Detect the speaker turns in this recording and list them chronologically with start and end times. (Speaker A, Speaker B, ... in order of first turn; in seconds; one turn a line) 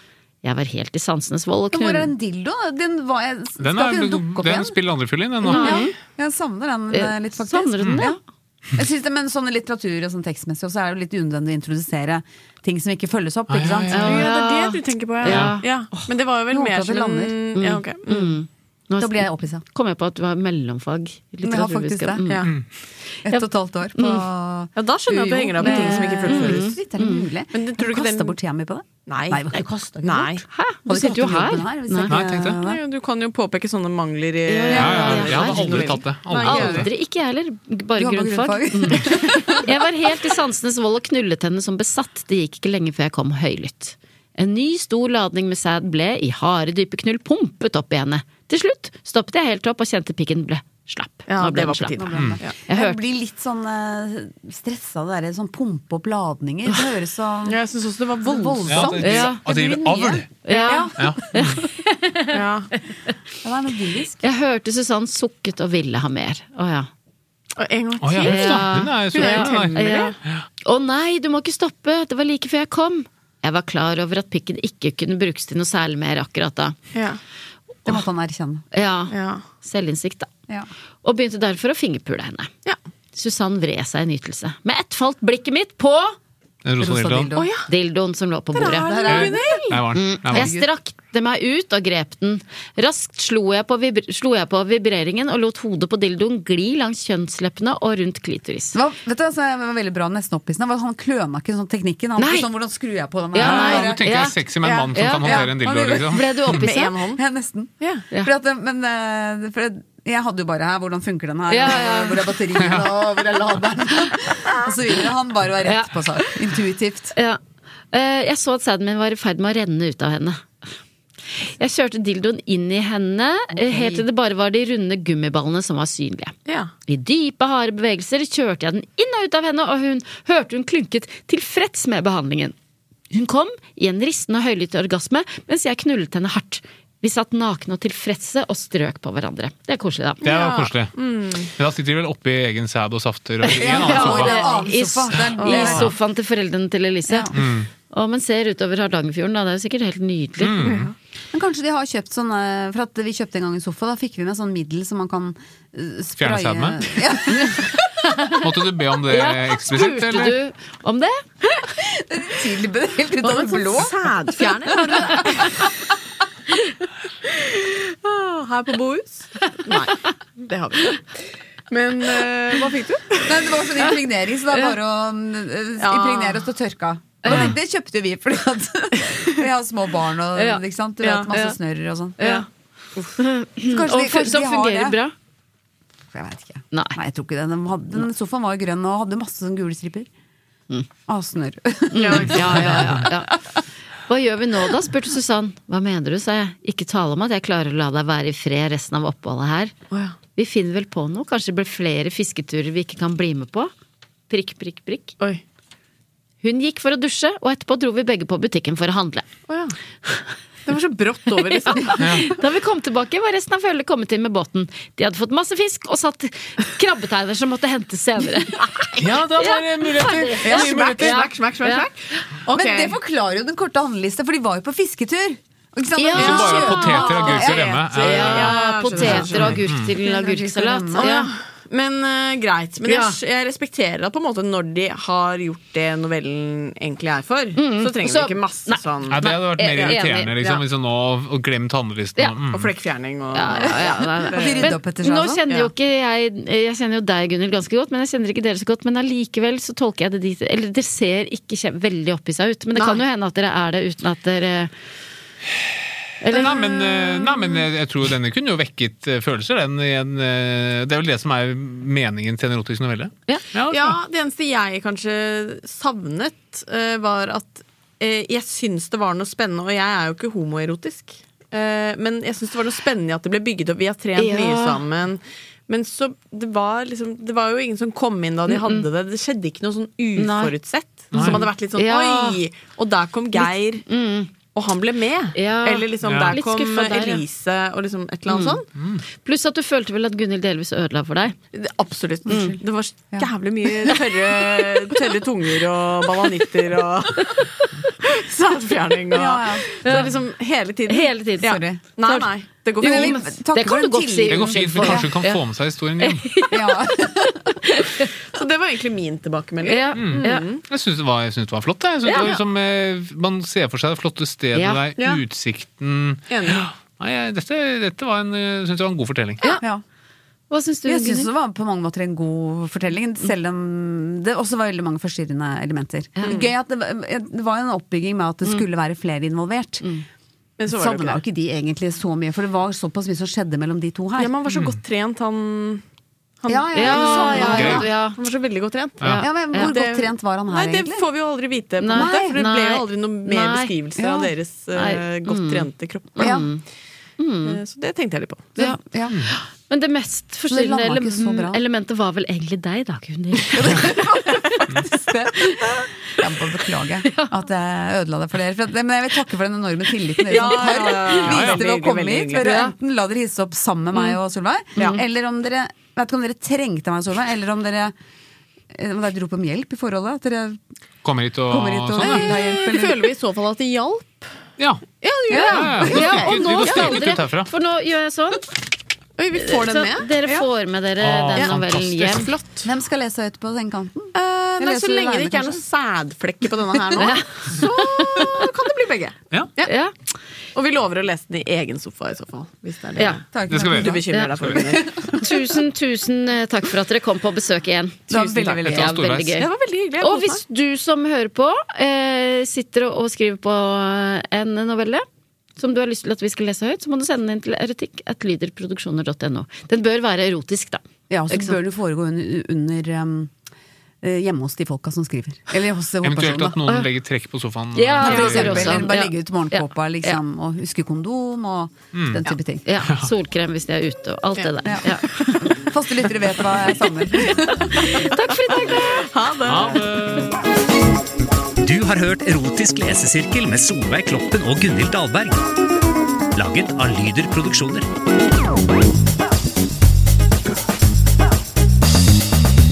Speaker A: 0.4-2.1
Speaker B: 1.7-4.8
Speaker C: 3.6-5.8
Speaker A: 5.4-5.9
Speaker B: 5.4-8.2
Speaker A: 6.9-8.2
Speaker B: 8.8-14.2
Speaker C: 13.5-14.3
Speaker A: 13.9-15.7
Speaker D: 13.9-18.3
Speaker C: 15.3-15.6
Speaker B: 16.5-17.4
Speaker A: 17.5-22.5
Speaker B: 19.0-19.6
Speaker B: 21.4-22.3
Speaker B: 23.2-32.8
Speaker A: 24.0-24.2
Speaker D: 24.8-26.8
Speaker A: 25.6-27.3
Speaker D: 27.5-28.4
Speaker D: 29.1-30.4
Speaker A: 30.5-32.2
Speaker C: 32.1-32.6
Speaker D: 32.6-36.9
Speaker A: 34.5-53.0
Speaker C: 34.7-36.9
Speaker B: 34.8-35.2
Speaker B: 38.0-39.7
Speaker D: 51.3-52.5
Speaker B: 52.0-57.6
Speaker D: 57.5-59.0
Speaker B: 58.2-60.7
Speaker C: 58.7-60.3
Speaker A: 59.0-59.4
Speaker A: 60.4-62.4
Speaker D: 60.6-61.0
Speaker C: 60.9-61.6
Speaker D: 62.3-62.7
Speaker B: 63.4-64.2
Speaker A: 64.2-66.9
Speaker D: 67.5-70.2
Speaker C: 68.0-70.4
Speaker A: 68.2-76.8
Speaker D: 76.9-77.2
Speaker B: 77.8-78.6
Speaker A: 78.7-80.3
Speaker D: 79.1-79.4
Speaker A: 81.0-82.5
Speaker A: 83.1-86.2
Speaker C: 86.6-87.3
Speaker B: 86.8-87.5
Speaker D: 87.4-87.7
Speaker A: 87.7-89.3
Speaker D: 88.5-89.8
Speaker B: 88.6-89.6
Speaker C: 89.1-90.5
Speaker A: 89.9-98.8
Speaker B: 90.2-90.6
Speaker B: 98.7-104.0
Speaker A: 102.2-102.5
Speaker A: 103.3-104.4
Speaker C: 103.4-106.6
Speaker D: 104.6-107.2
Speaker A: 104.9-105.5
Speaker A: 106.1-107.0
Speaker B: 107.1-117.1
Speaker A: 111.5-112.3
Speaker A: 115.6-116.0
Speaker A: 117.9-120.5
Speaker A: 121.4-126.3
Speaker B: 123.5-124.0
Speaker D: 126.5-126.7
Speaker A: 126.9-132.5
Speaker A: 133.1-140.2
Speaker D: 140.2-141.5
Speaker C: 140.2-140.9
Speaker C: 141.5-144.3
Speaker A: 143.4-147.3
Speaker B: 143.6-145.9
Speaker D: 144.0-144.6
Speaker D: 145.4-145.8
Speaker B: 147.1-147.3
Speaker C: 147.3-147.7
Speaker A: 147.9-150.8
Speaker C: 150.4-150.9
Speaker B: 151.3-157.8
Speaker C: 156.2-156.8
Speaker A: 158.1-158.4
Speaker C: 158.4-160.3
Speaker A: 159.1-161.2
Speaker B: 161.8-165.5
Speaker D: 163.2-165.7
Speaker D: 167.4-173.4
Speaker B: 173.2-182.3
Speaker D: 175.8-176.4
Speaker A: 177.2-177.5
Speaker A: 180.3-180.6
Speaker D: 181.0-181.3
Speaker A: 181.3-181.5
Speaker A: 182.2-182.4
Speaker A: 183.2-185.1
Speaker B: 183.7-185.0
Speaker B: 186.1-190.1
Speaker A: 186.7-187.0
Speaker B: 191.1-193.1
Speaker A: 191.9-193.4
Speaker D: 192.0-192.5
Speaker A: 194.1-199.7
Speaker A: 200.3-203.7
Speaker A: 204.3-205.1
Speaker A: 206.4-209.3
Speaker D: 209.5-209.7
Speaker D: 210.7-212.0
Speaker A: 211.4-221.9
Speaker C: 212.0-212.3
Speaker C: 219.0-221.2
Speaker D: 220.4-222.9
Speaker B: 220.4-220.9
Speaker B: 222.5-228.5
Speaker A: 226.0-231.3
Speaker C: 226.1-229.9
Speaker D: 226.2-227.0
Speaker D: 228.0-229.6
Speaker B: 229.8-231.2
Speaker D: 230.9-240.6
Speaker A: 232.8-233.2
Speaker A: 237.6-240.3
Speaker C: 239.1-242.7
Speaker D: 242.5-244.7
Speaker A: 243.3-254.7
Speaker B: 244.2-245.4
Speaker D: 252.7-253.0
Speaker A: 256.2-257.4
Speaker C: 256.2-264.0
Speaker D: 263.7-283.8
Speaker A: 274.2-274.8
Speaker A: 278.5-278.8
Speaker A: 280.1-280.5
Speaker C: 281.1-281.4
Speaker A: 281.1-282.4
Speaker A: 283.4-284.3
Speaker D: 284.5-288.7
Speaker A: 285.3-287.2
Speaker C: 286.0-286.4
Speaker A: 288.3-288.6
Speaker C: 288.8-289.0
Speaker A: 289.1-291.4
Speaker D: 291.5-297.4
Speaker B: 292.3-292.6
Speaker A: 292.3-292.5
Speaker A: 297.2-297.5
Speaker D: 298.0-303.2
Speaker B: 299.1-300.0
Speaker A: 299.8-300.1
Speaker A: 300.9-302.2
Speaker B: 301.4-302.2
Speaker B: 302.7-305.1
Speaker A: 302.8-305.4
Speaker C: 304.3-306.2
Speaker A: 306.0-308.1
Speaker B: 306.5-307.6
Speaker D: 308.3-310.6
Speaker A: 309.6-310.4
Speaker C: 309.9-319.5
Speaker D: 312.1-312.4
Speaker A: 314.5-314.8
Speaker D: 316.3-316.6
Speaker A: 320.5-321.3
Speaker B: 320.8-329.9
Speaker D: 330.6-331.2
Speaker B: 330.7-334.3
Speaker D: 334.2-335.8
Speaker D: 336.4-346.5
Speaker B: 336.5-337.9
Speaker A: 336.7-338.2
Speaker C: 337.5-337.8
Speaker A: 339.1-339.7
Speaker B: 339.2-341.1
Speaker A: 341.8-343.7
Speaker B: 341.9-342.3
Speaker B: 344.0-344.3
Speaker A: 344.7-345.7
Speaker A: 346.2-346.6
Speaker B: 346.2-346.5
Speaker A: 347.2-347.6
Speaker D: 347.4-348.6
Speaker B: 348.6-349.2
Speaker A: 348.6-354.5
Speaker B: 350.5-351.6
Speaker B: 353.5-367.9
Speaker D: 360.3-362.5
Speaker A: 360.4-361.0
Speaker C: 361.2-361.6
Speaker A: 362.4-362.7
Speaker B: 368.7-370.6
Speaker C: 371.0-372.3
Speaker B: 371.5-373.1
Speaker D: 372.0-374.3
Speaker C: 374.6-377.5
Speaker D: 375.0-376.9
Speaker B: 375.3-375.7
Speaker A: 375.3-378.5
Speaker D: 379.2-380.1
Speaker A: 379.3-382.3
Speaker C: 381.0-382.3
Speaker B: 382.6-385.6
Speaker D: 384.1-389.7
Speaker A: 387.0-388.4
Speaker B: 388.1-388.4
Speaker A: 389.6-389.9
Speaker D: 390.5-395.2
Speaker B: 393.3-393.9
Speaker C: 393.5-394.6
Speaker A: 393.8-399.5
Speaker B: 398.1-398.9
Speaker C: 398.5-399.4
Speaker D: 399.4-400.4
Speaker A: 400.0-405.0
Speaker A: 405.6-411.6
Speaker B: 411.1-413.3
Speaker B: 414.0-416.6
Speaker C: 416.0-418.7
Speaker A: 416.6-416.9
Speaker A: 417.7-420.2
Speaker D: 418.0-418.5
Speaker B: 418.1-422.6
Speaker C: 421.9-422.2
Speaker A: 422.6-425.6
Speaker B: 424.6-427.7
Speaker A: 427.3-429.1
Speaker D: 427.9-429.8
Speaker C: 429.4-430.3
Speaker E: 431.6-435.4
Speaker E: 436.3-437.9